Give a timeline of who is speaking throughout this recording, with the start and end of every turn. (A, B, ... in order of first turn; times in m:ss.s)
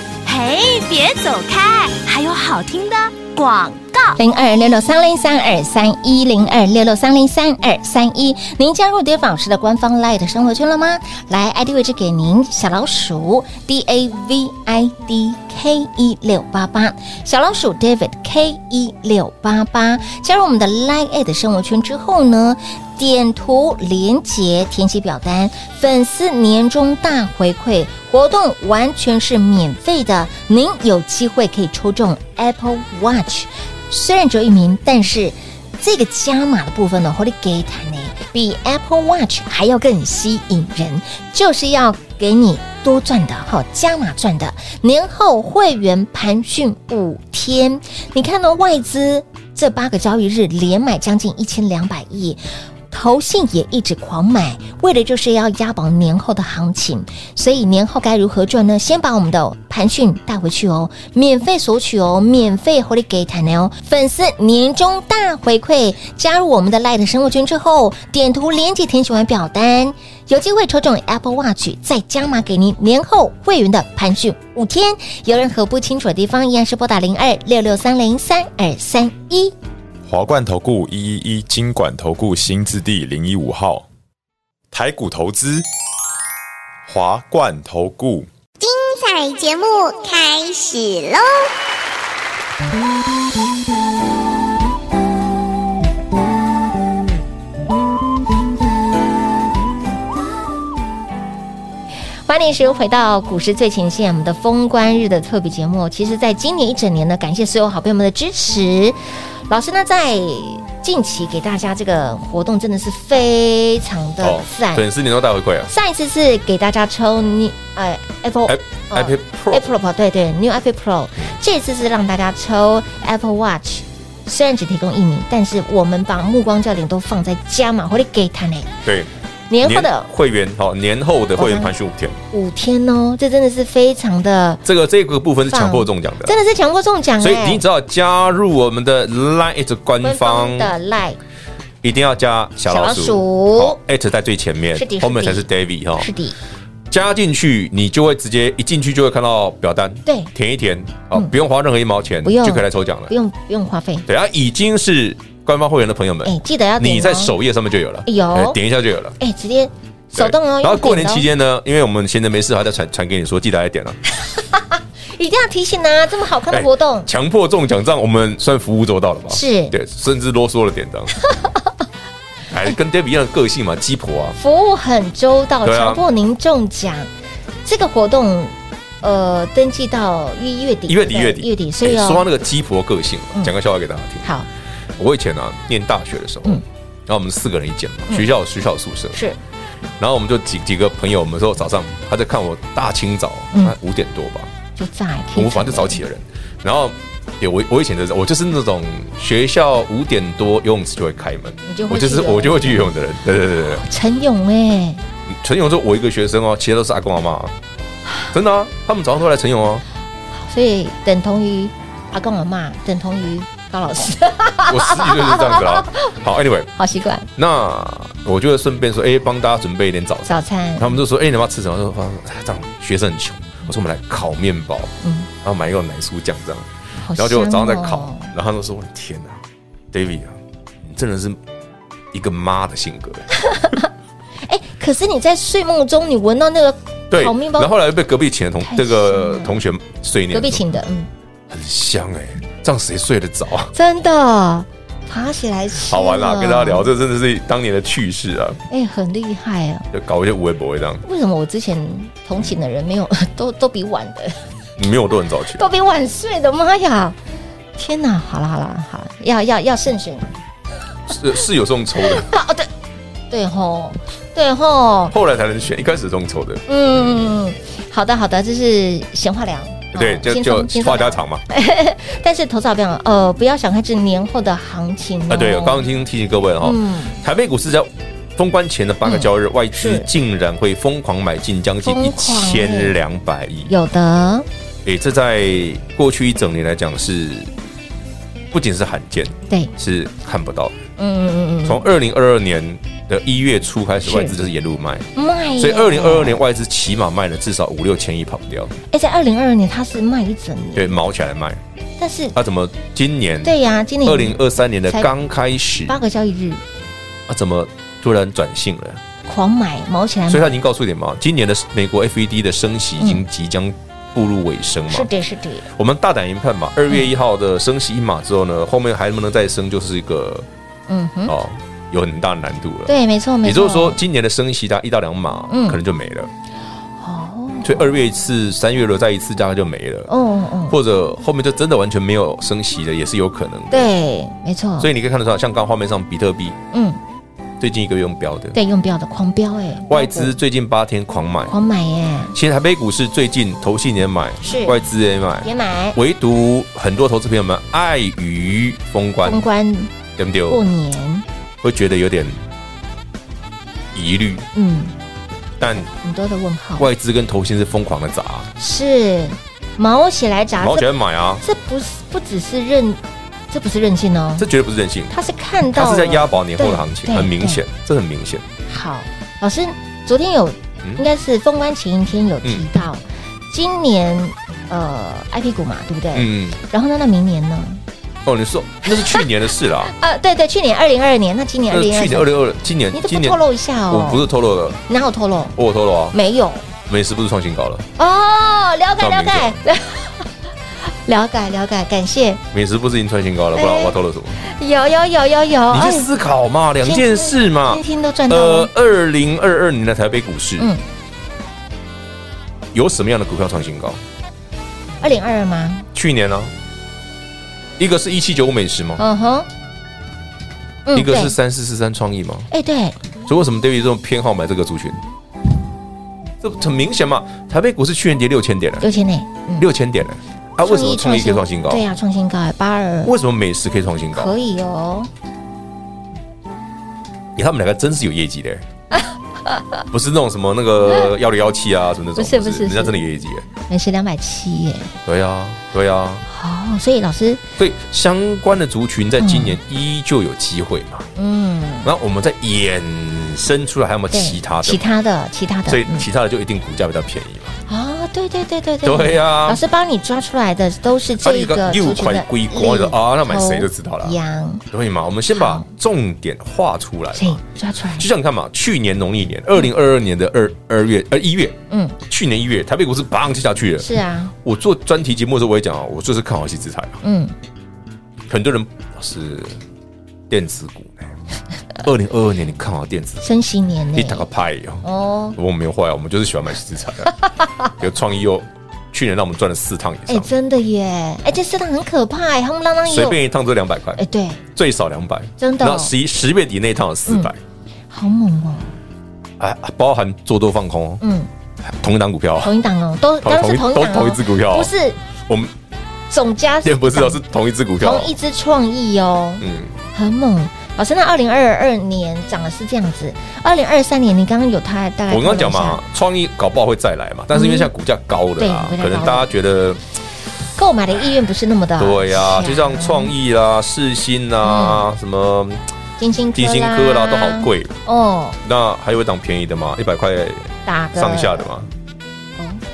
0:00.3-0:04.2 A
0:04.2-1:19.6 B
1:20.1-1:23.8 C
1:24.7-1:25.6 C
1:26.9-1:28.3 C
1:28.6-1:31.5 D
1:42.3-1:54.8 B
1:54.2-1:55.7 E
1:55.7-2:08.8 B
1:58.5-1:59.7 E
2:08.8-2:09.1 E
2:09.5-2:10.1 B
2:09.6-2:12.2 E
2:11.4-2:11.7 B
2:12.3-2:14.6 B
2:14.6-2:16.4 E
2:15.5-2:17.6 B
2:17.2-2:20.7 E
2:20.0-2:21.2 B
2:21.8-2:26.1 E
2:22.7-2:23.8 B
2:24.8-2:25.5 B
2:26.0-2:26.4 B
2:26.9-2:33.1 E
2:32.2-2:34.1 B
2:34.1-2:39.2 E
2:36.2-2:37.4 B
2:38.1-2:38.6 B
2:39.2-2:41.3 B
2:40.2-2:44.0 E
2:44.2-2:47.1 B
2:46.5-2:51.1 E
2:49.3-2:49.7 B
2:52.5-2:54.4 E
2:54.4-2:57.1 B
2:55.6-2:56.0 E
2:57.6-3:02.2 B
3:00.9-3:04.3 E
3:05.0-3:09.2 E
3:10.0-3:14.5 E
3:14.8-3:16.0 B
3:15.4-3:23.8 E
3:21.7-3:22.9 B
3:23.6-3:25.0 B
3:25.3-3:27.5 E
3:28.3-3:29.8 E
3:30.3-3:36.1 B
3:34.7-3:36.7 E
3:36.8-3:37.3 B
3:37.4-3:51.4 E
3:40.3-3:41.0 B
3:45.0-3:45.3 B
3:47.0-3:48.3 B
3:52.1-3:53.3 E
3:53.4-3:53.9 B
3:54.4-3:57.7 B
3:57.1-4:00.6 E
3:58.6-3:59.6 B
4:00.3-4:01.1 B
4:01.5-4:03.7 E
4:03.7-4:06.9 B
4:05.8-4:08.6 E
4:08.7-4:09.9 B
4:09.9-4:11.0 E
4:11.0-4:14.4 B
4:14.8-4:15.6 E
4:15.6-4:17.2 B
4:17.8-4:20.3 B
4:21.1-4:22.3 E
4:22.0-4:22.7 B
4:23.3-4:25.2 B
4:25.1-4:26.6 E
4:26.7-4:35.9 B
4:29.9-4:31.4 E
4:35.3-4:43.7 E
4:36.6-4:37.2 B
4:39.0-4:40.1 B
4:41.8-4:43.0 B
4:43.7-4:44.5 B
4:44.8-4:47.5 E
4:48.5-4:50.8 E
4:51.0-4:51.9 B
4:51.6-4:55.1 E
4:54.0-4:54.4 B
4:55.2-4:56.4 B
4:55.6-4:58.7 E
4:58.9-5:01.0 B
5:00.8-5:01.6 E
5:02.0-5:02.4 B
5:02.4-5:06.0 E
5:03.4-5:05.1 B
5:05.9-5:06.6 B
5:07.3-5:09.0 E
5:09.3-5:10.6 B
5:10.3-5:15.1 E
5:14.9-5:15.7 B
5:15.8-5:20.5 E
5:20.9-5:21.3 B
5:21.3-5:26.3 E
5:22.9-5:24.0 B
5:25.5-5:25.8 B
5:27.0-5:28.0 B
5:27.6-5:30.1 E
5:30.1-5:30.8 B
5:30.7-5:33.9 E
5:33.7-5:34.9 B
5:34.8-5:36.6 E
5:36.7-5:37.0 B
5:37.6-5:38.6 E
5:38.5-5:40.3 B
5:39.9-5:41.5 E
5:41.5-5:42.4 B
5:42.3-5:49.5 E
5:44.4-5:44.8 B
5:45.4-5:46.0 B
5:49.2-5:49.9 B
5:50.2-5:50.6 E
5:50.5-5:51.2 B
5:51.6-5:52.4 E
5:53.9-5:54.4 E
5:54.5-5:54.9 B
5:55.6-5:55.9 E
5:55.7-5:56.9 B
5:56.8-5:58.5 E
5:58.6-6:00.9 B
6:00.6-6:01.4 E
6:01.4-6:04.5 B
6:04.4-6:05.1 E
6:05.1-6:07.6 B
6:05.7-6:08.4 E
6:08.7-6:17.8 B
6:16.1-6:16.6 E
6:18.3-6:19.9 E
6:18.8-6:19.3 B
6:19.8-6:22.3 B
6:21.7-6:24.8 E
6:22.9-6:24.3 B
6:24.9-6:25.6 B
6:25.6-6:26.2 E
6:26.1-6:26.7 B
6:26.9-6:27.9 E
6:28.0-6:30.3 B
6:29.0-6:29.6 E
6:30.8-6:32.4 B
6:32.5-6:34.4 E
6:33.6-6:36.1 B
6:35.7-6:40.7 E
6:36.8-6:38.7 B
6:42.7-6:44.0 E
6:45.0-6:45.9 B
6:45.9-6:46.5 E
6:47.8-6:49.0 E
6:49.0-6:49.5 B
6:50.9-6:51.4 B
6:50.9-6:52.5 E
6:52.5-6:53.0 B
6:53.3-6:55.0 E
6:56.4-6:58.9 E
6:58.8-6:59.7 B
6:59.6-7:01.8 E
7:00.6-7:03.1 B
7:03.0-7:04.3 E
7:04.2-7:05.1 B
7:07.4-7:08.6 E
7:08.9-7:09.8 B
7:09.9-7:13.5 E
7:12.2-7:13.0 B
7:13.7-7:15.0 B
7:15.1-7:16.2 E
7:16.3-7:17.4 B
7:17.6-7:21.1 E
7:19.2-7:19.6 B
7:21.2-7:21.9 B
7:21.8-7:24.8 E
7:24.1-7:26.1 B
7:25.7-7:27.5 E
7:27.7-7:34.6 B
7:28.8-7:29.6 E
7:31.2-7:34.2 E
7:34.7-7:37.4 E
7:35.3-7:35.7 B
7:37.2-7:38.1 B
7:38.0-7:43.9 E
7:41.7-7:42.0 B
7:43.8-7:44.3 B
7:44.4-7:47.0 E
7:47.0-7:47.3 B
7:48.3-7:49.6 E
7:50.3-7:51.2 E
7:51.8-7:53.3 E
7:53.2-7:54.3 B
7:54.0-7:54.8 E
7:54.8-7:55.4 B
7:55.4-7:57.1 E
7:57.2-7:57.7 B
7:57.8-8:00.3 E
8:00.1-8:03.2 B
8:02.9-8:04.0 E
8:04.0-8:04.4 B
8:04.6-8:07.4 E
8:05.4-8:05.9 B
8:07.9-8:08.8 B
8:09.4-8:11.0 E
8:11.0-8:11.3 B
8:11.6-8:12.5 E
8:12.4-8:15.0 B
8:13.2-8:14.7 E
8:16.1-8:17.2 B
8:16.6-8:18.1 E
8:17.8-8:25.8 B
8:19.4-8:19.7 E
8:25.1-8:29.8 E
8:27.3-8:27.7 B
8:28.4-8:29.3 B
8:30.6-8:33.1 B
8:31.8-8:35.7 E
8:34.4-8:34.9 B
8:36.0-8:38.4 B
8:36.4-8:37.7 E
8:38.4-8:41.7 E
8:40.7-8:41.5 B